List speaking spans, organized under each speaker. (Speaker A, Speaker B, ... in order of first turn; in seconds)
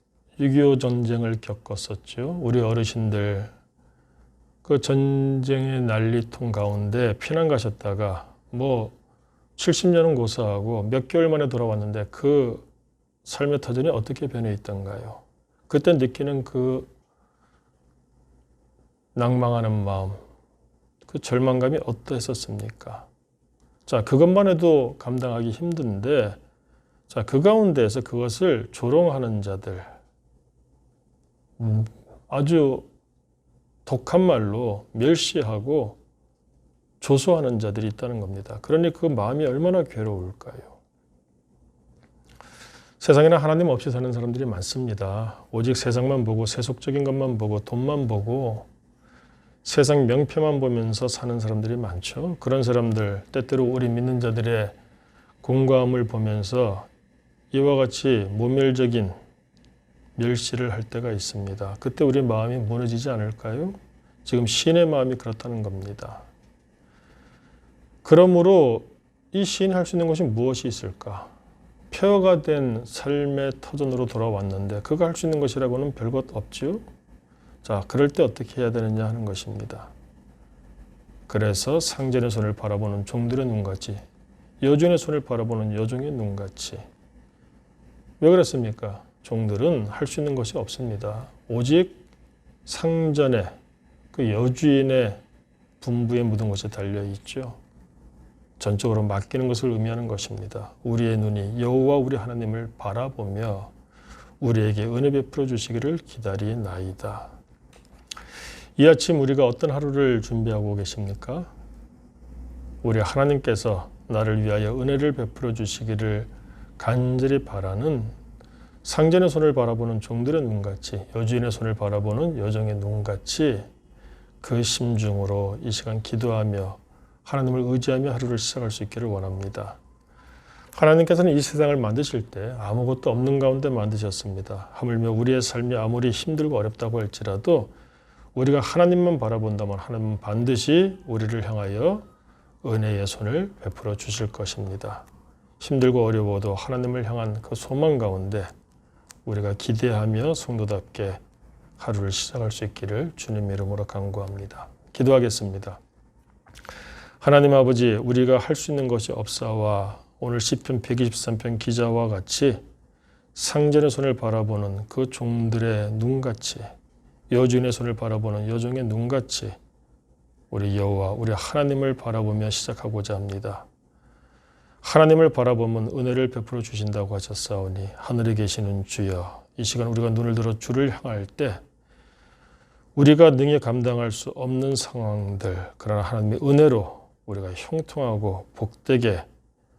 Speaker A: 0.4-3.5, 4.6-8.9, 9.6-12.7, 13.2-16.9, 19.1-20.2, 21.1-23.1, 23.9-26.4, 27.1-29.9, 31.6-32.9, 33.8-36.0, 37.0-40.8, 43.0-48.7, 49.6-54.8, 55.4-56.9, 57.5-59.1, 60.1-66.2, 68.0-71.3, 71.9-76.8, 77.6-79.9, 81.3-84.0, 84.6-86.8, 88.2-92.0, 92.7-93.5, 94.1-95.2, 95.8-97.6, 98.6-103.7, 104.4-107.3, 108.8-111.5, 112.8-118.2, 118.8-123.7, 124.4-129.8, 130.7-137.7, 138.3-142.1, 142.6-145.1, 145.6-148.5, 149.2-151.2, 151.8-155.8, 157.2-162.6, 163.3-166.7, 167.3-169.6, 170.5-173.7, 174.8-181.6, 182.9-189.3